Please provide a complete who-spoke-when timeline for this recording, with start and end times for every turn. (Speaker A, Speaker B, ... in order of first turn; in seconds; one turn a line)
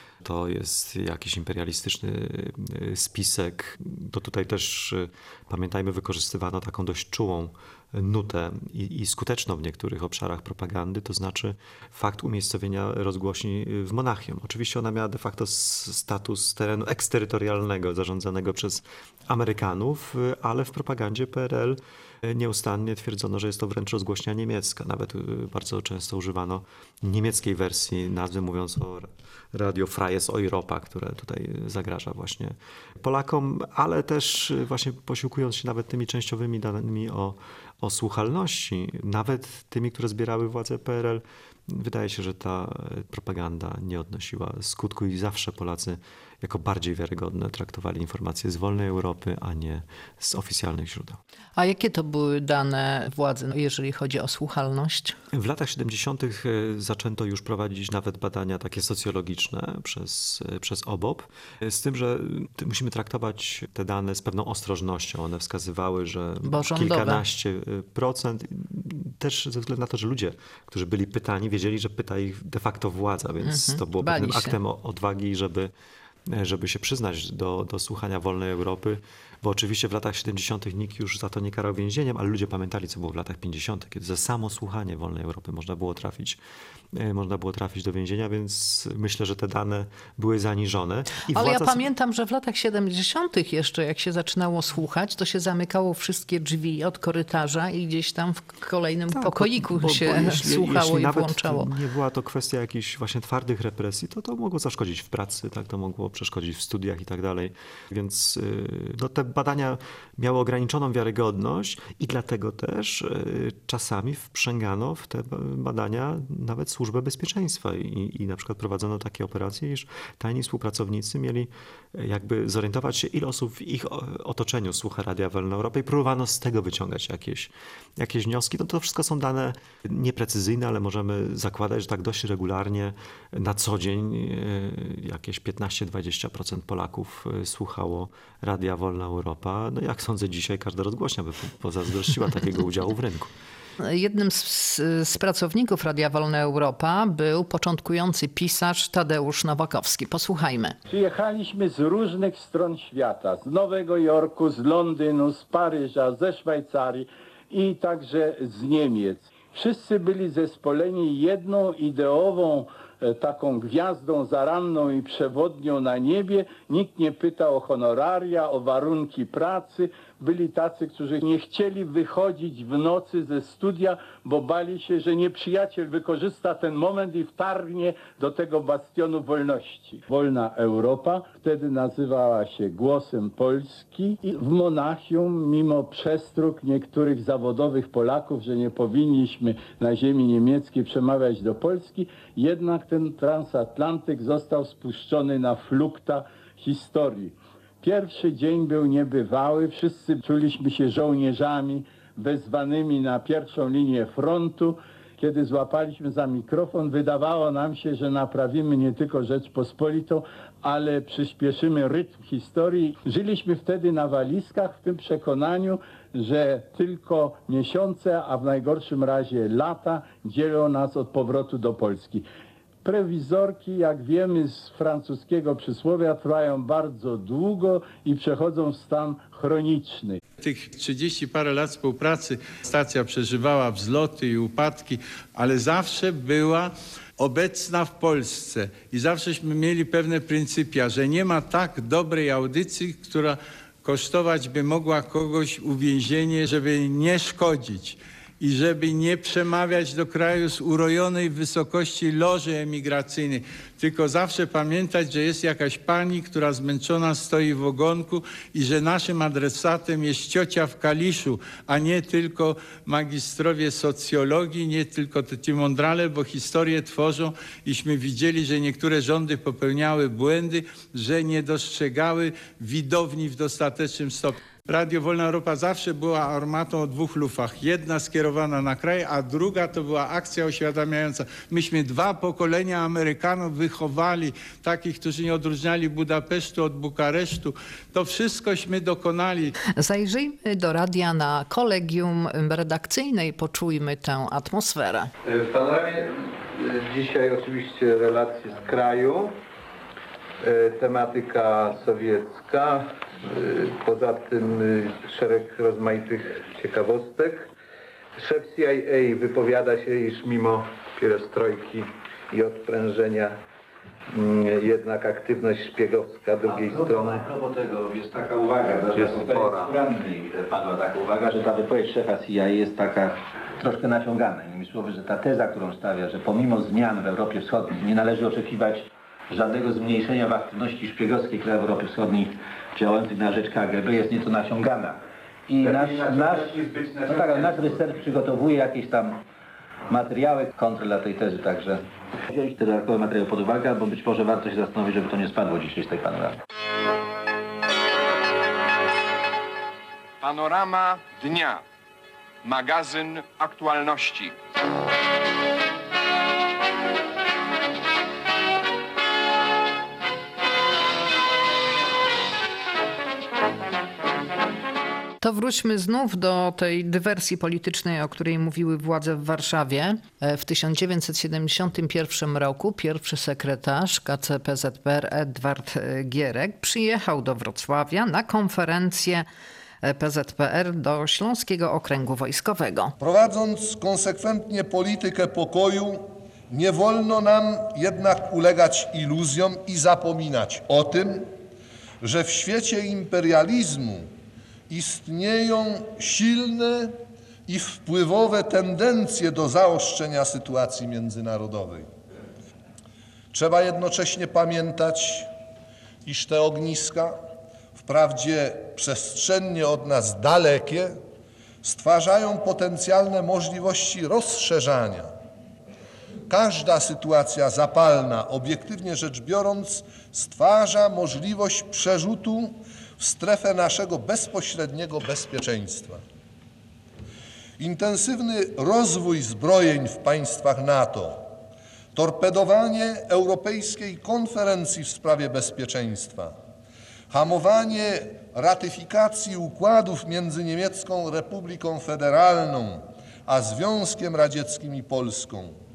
Speaker A: 0.2-51.2
Speaker B: 51.6-55.1
Speaker A: 55.3-75.7
Speaker B: 66.4-67.2
Speaker B: 73.4-74.5
Speaker A: 76.3-86.4
Speaker A: 86.9-91.9
Speaker B: 91.3-101.7
Speaker A: 99.1-143.3
Speaker B: 143.8-150.8
Speaker C: 150.9-222.2
Speaker C: 222.8-230.2
Speaker D: 230.4-289.5
Speaker B: 289.8-295.1
Speaker E: 295.2-299.4
Speaker E: 300.4-307.5
Speaker E: 308.2-313.4
Speaker E: 314.1-317.2
Speaker F: 316.4-339.2
Speaker E: 336.6-336.9
Speaker F: 339.9-346.4
Speaker G: 350.2-351.6
Speaker G: 352.4-354.3
Speaker B: 365.2-379.3
Speaker B: 379.8-382.9
Speaker H: 383.0-391.3
Speaker H: 392.0-394.1
Speaker H: 394.7-396.9
Speaker H: 397.5-401.9
Speaker H: 403.3-405.3
Speaker H: 406.0-407.2
Speaker H: 407.7-411.0
Speaker H: 411.6-415.1
Speaker H: 416.3-426.0
Speaker H: 427.6-431.2
Speaker H: 431.9-436.3
Speaker H: 437.1-445.5